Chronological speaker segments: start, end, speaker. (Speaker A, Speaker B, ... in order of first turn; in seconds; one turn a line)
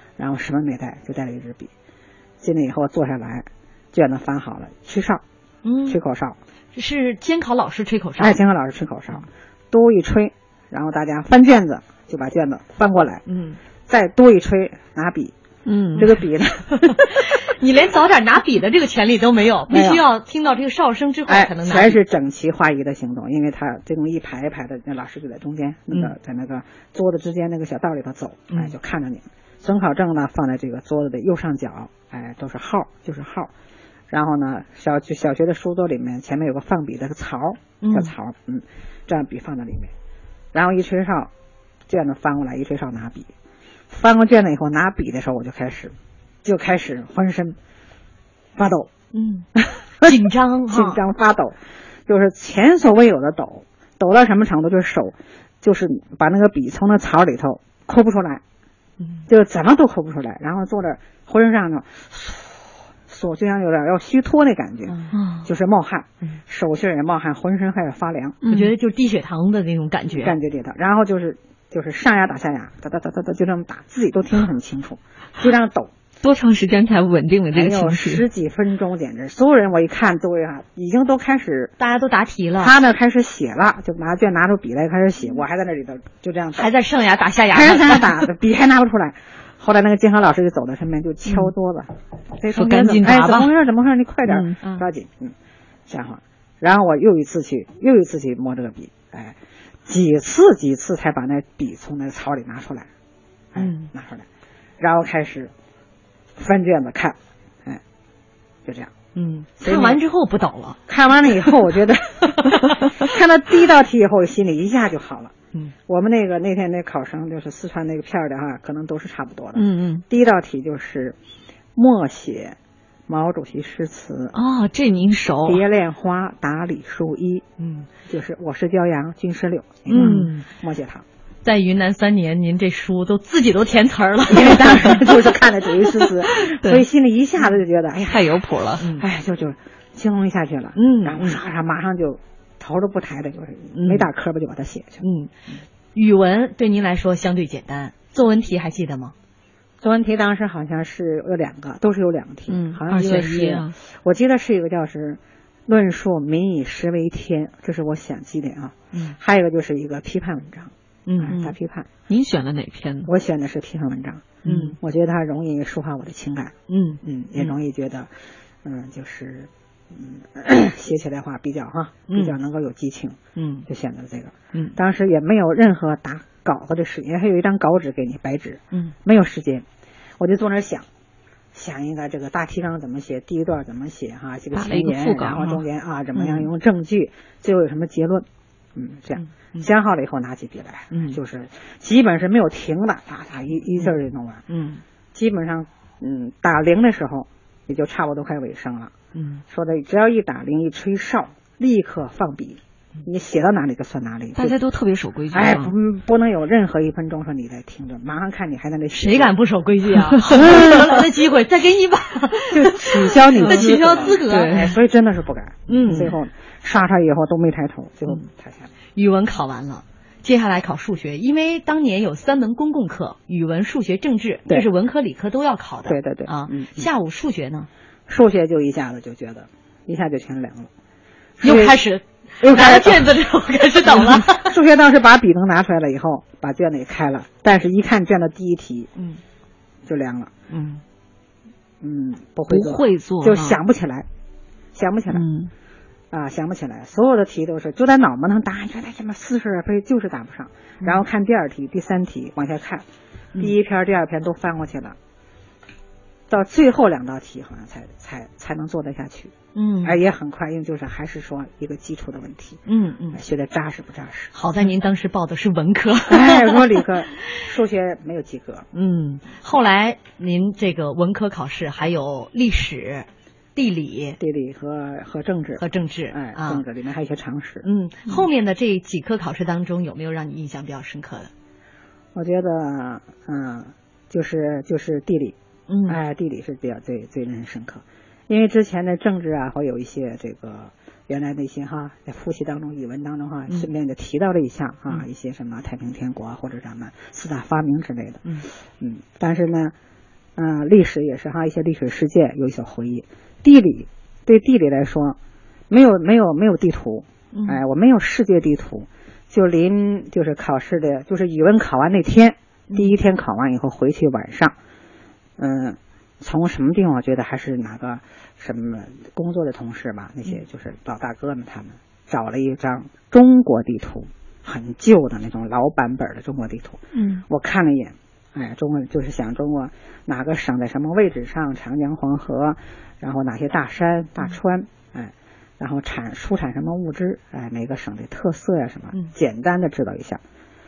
Speaker A: 0.2-1.7
Speaker A: 2.4-5.2
Speaker B: 5.6-6.0
Speaker A: 5.9-6.4
Speaker B: 6.7-8.4
Speaker A: 8.2-13.2
Speaker B: 13.3-13.6
Speaker A: 13.9-15.3
Speaker C: 15.7-16.1
Speaker A: 15.9-17.1
Speaker B: 16.8-22.0
Speaker A: 19.7-20.0
Speaker A: 21.3-33.5
Speaker A: 34.1-39.9
Speaker B: 37.8-38.1
Speaker A: 40.5-41.3
Speaker A: 41.9-43.3
Speaker A: 43.9-47.6
Speaker A: 48.6-48.9
Speaker B: 49.1-49.5
Speaker A: 49.6-50.1
Speaker B: 50.0-51.0
Speaker A: 50.7-51.6
Speaker A: 52.1-58.4
Speaker A: 59.3-68.4
Speaker B: 64.9-65.1
Speaker C: 65.1-65.5
Speaker C: 68.4-68.7
Speaker B: 68.5-70.3
Speaker A: 70.2-75.9
Speaker C: 76.2-78.2
Speaker A: 77.5-81.7
Speaker B: 81.8-82.8
Speaker A: 82.6-86.7
Speaker B: 86.5-88.3
Speaker A: 87.5-95.3
Speaker C: 92.5-93.5
Speaker C: 94.3-94.6
Speaker A: 95.9-102.9
Speaker A: 103.5-104.3
Speaker B: 103.6-103.9
Speaker A: 104.8-105.5
Speaker A: 106.4-107.8
Speaker A: 108.7-108.9
Speaker B: 109.2-110.8
Speaker A: 109.6-110.0
Speaker A: 110.9-115.3
Speaker B: 112.3-112.8
Speaker A: 115.9-121.2
Speaker C: 119.5-120.0
Speaker A: 121.8-122.6
Speaker A: 123.1-124.4
Speaker C: 124.3-125.6
Speaker A: 125.5-127.5
Speaker B: 127.6-127.9
Speaker A: 128.1-131.1
Speaker B: 129.9-130.4
Speaker C: 129.9-130.3
Speaker B: 131.4-135.1
Speaker A: 134.3-145.0
Speaker C: 138.1-138.8
Speaker B: 138.8-139.0
Speaker B: 140.8-141.3
Speaker B: 145.0-145.3
Speaker B: 145.9-149.2
Speaker A: 149.8-161.9
Speaker C: 152.5-153.8
Speaker B: 161.1-161.4
Speaker C: 162.1-163.1
Speaker A: 163.1-168.1
Speaker B: 164.4-164.8
Speaker C: 164.5-164.7
Speaker B: 166.7-167.5
Speaker A: 168.6-179.7
Speaker B: 172.1-172.3
Speaker B: 173.4-173.7
Speaker A: 180.2-180.9
Speaker A: 181.5-194.4
Speaker C: 184.5-185.6
Speaker B: 186.2-186.5
Speaker B: 189.2-189.7
Speaker B: 190.9-191.2
Speaker B: 194.5-194.8
Speaker A: 195.1-198.9
Speaker B: 199.1-199.4
Speaker A: 199.5-204.6
Speaker C: 204.4-205.7
Speaker A: 205.3-209.3
Speaker B: 208.9-214.6
Speaker A: 210.3-211.0
Speaker C: 210.3-210.7
Speaker A: 212.5-218.7
Speaker C: 213.4-214.8
Speaker B: 215.7-216.1
Speaker C: 215.7-216.1
Speaker B: 219.0-227.7
Speaker A: 225.9-226.9
Speaker A: 228.1-230.7
Speaker A: 231.4-231.8
Speaker B: 231.4-234.5
Speaker A: 232.4-233.2
Speaker A: 233.9-238.9
Speaker A: 239.9-240.3
Speaker B: 240.5-240.8
Speaker A: 241.8-244.1
Speaker C: 242.5-243.6
Speaker A: 244.7-245.3
Speaker C: 245.1-245.5
Speaker A: 246.1-252.8
Speaker A: 253.4-255.0
Speaker A: 256.3-262.6
Speaker B: 259.6-260.0
Speaker B: 262.7-263.2
Speaker A: 263.1-264.3
Speaker B: 264.3-266.8
Speaker A: 266.1-268.7
Speaker B: 268.7-274.2
Speaker A: 274.2-277.6
Speaker B: 275.6-276.6
Speaker B: 277.6-281.3
Speaker A: 282.1-285.4
Speaker B: 285.7-286.0
Speaker A: 285.9-299.7
Speaker A: 300.4-305.2
Speaker A: 305.7-314.6
Speaker B: 307.3-307.6
Speaker A: 315.4-340.2
Speaker C: 326.9-327.2